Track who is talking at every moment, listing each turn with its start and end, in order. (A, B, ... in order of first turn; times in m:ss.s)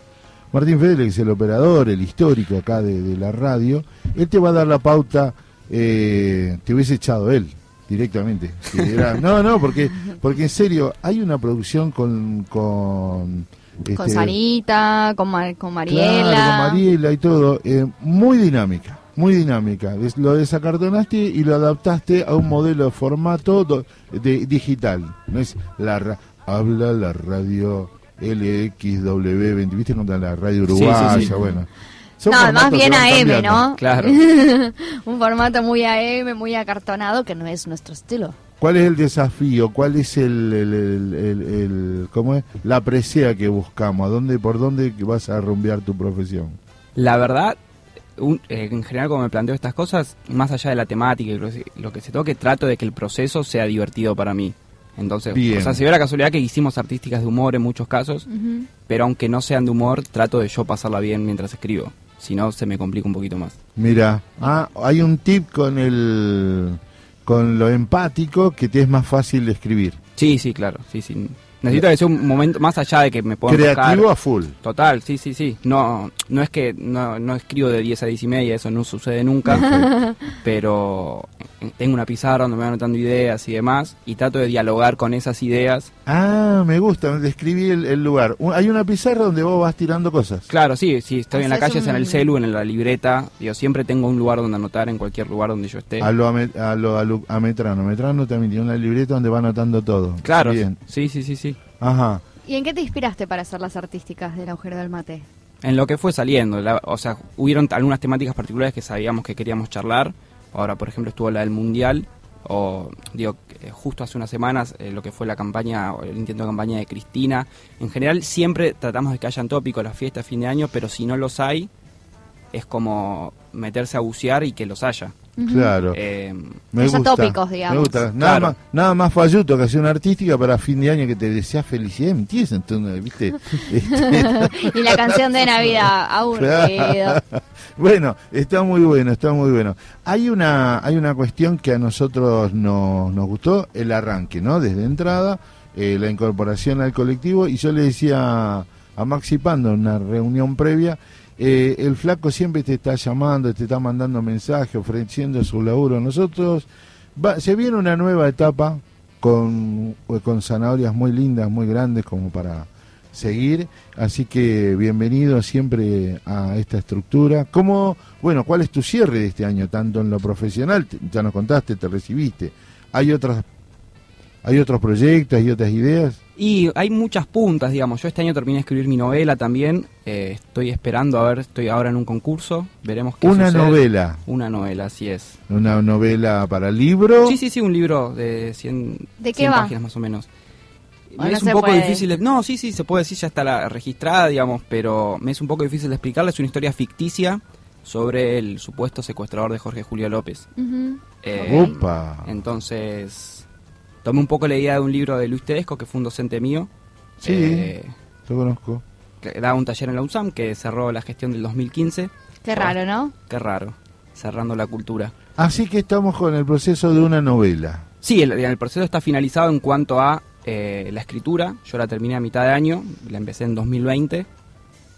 0:00.5-0:14.3 A
0:13.9-0:16.8 B
0:15.9-0:33.7 A
0:30.7-0:31.4 C
0:32.3-0:38.4 B
0:33.8-0:34.2 C
0:38.6-0:46.6 A
0:47.0-0:47.6 C
0:48.2-0:58.3 C
0:55.3-0:55.8 A
0:58.3-0:58.6 B
0:58.8-1:03.6 C
1:03.8-1:10.0 A
1:10.2-1:14.1 C
1:13.5-1:14.6 A
1:14.6-1:19.7 C
1:19.5-1:19.9 A
1:19.5-1:20.2 B
1:20.3-1:25.9 C
1:26.0-1:30.5 A
1:30.5-1:36.1 C
1:31.3-1:32.3 B
1:36.0-1:40.8 A
1:40.2-1:41.6 C
1:41.8-1:42.2 A
1:42.4-1:45.2 B
1:45.6-2:01.7 C
2:02.5-2:05.2 C
2:05.4-2:05.7 B
2:05.5-2:06.0 A
2:05.9-2:06.6 C
2:06.7-2:15.2 A
2:06.8-2:08.0 B
2:08.2-2:08.5 C
2:13.9-2:17.2 B
2:16.4-2:53.4 A
2:54.4-2:56.2 A
2:56.4-3:05.4 C
3:03.2-3:04.2 A
3:05.5-3:07.4 A
3:07.2-3:10.3 C
3:09.2-3:09.7 B
3:11.1-3:20.5 C
3:11.2-3:12.0 B
3:20.6-3:21.7 B
3:21.2-3:23.5 C
3:21.4-3:22.3 A
3:24.0-3:26.7 C
3:27.2-3:27.7 A
3:27.2-3:27.9 C
3:28.3-3:28.8 A
3:29.2-3:32.8 C
3:32.4-3:33.1 B
3:33.3-3:35.1 C
3:35.4-3:37.9 A
3:38.0-3:44.3 C